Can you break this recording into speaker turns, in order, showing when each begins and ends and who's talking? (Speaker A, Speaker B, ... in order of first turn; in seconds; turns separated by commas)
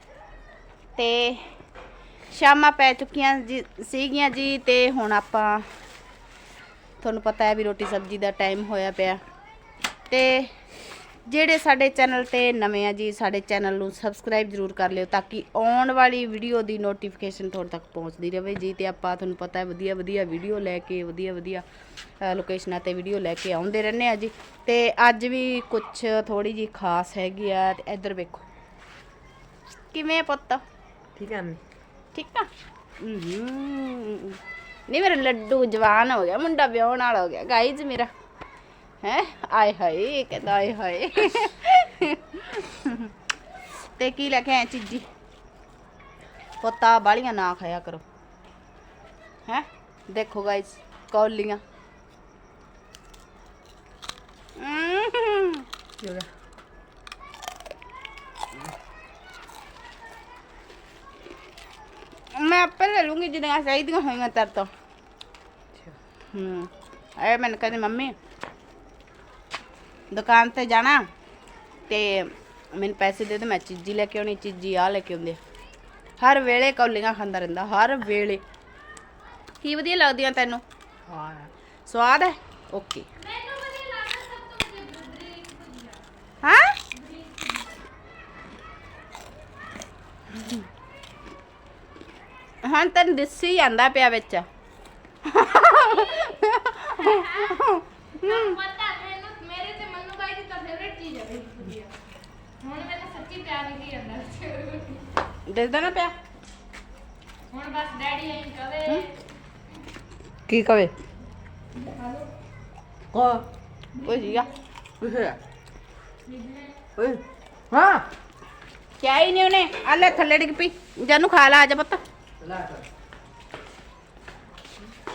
Speaker A: 1.0-1.5, Speaker A: 2.3-5.7, Speaker A: 7.0-9.2, Speaker A: 10.1-10.5, Speaker A: 11.3-21.6, Speaker A: 22.2-28.4, Speaker A: 29.9-30.6, Speaker B: 31.2-31.6, Speaker A: 32.1-32.5, Speaker A: 33.0-38.1, Speaker A: 39.0-43.1, Speaker A: 44.0-45.1, Speaker A: 46.6-48.0, Speaker A: 49.5-51.6, Speaker A: 54.6-55.7, Speaker A: 62.3-64.7, Speaker A: 66.3-68.1, Speaker A: 70.1-71.1, Speaker A: 71.9-75.4, Speaker A: 76.2-78.4, Speaker A: 79.6-80.6, Speaker A: 81.9-83.1, Speaker C: 83.2-86.0, Speaker A: 86.4-86.8, Speaker C: 86.9-87.7, Speaker A: 92.6-94.5, Speaker A: 95.2-98.6, Speaker C: 95.9-96.3, Speaker C: 97.0-97.7, Speaker C: 98.2-101.9, Speaker C: 102.6-105.1, Speaker A: 105.5-106.1, Speaker C: 107.5-109.1, Speaker B: 110.5-110.9, Speaker C: 111.8-112.3, Speaker B: 113.1-113.4, Speaker C: 114.0-114.5, Speaker A: 114.0-114.5, Speaker B: 115.0-115.4, Speaker C: 116.3-116.8, Speaker B: 117.0-118.0, Speaker A: 119.0-122.0, Speaker B: 122.4-122.8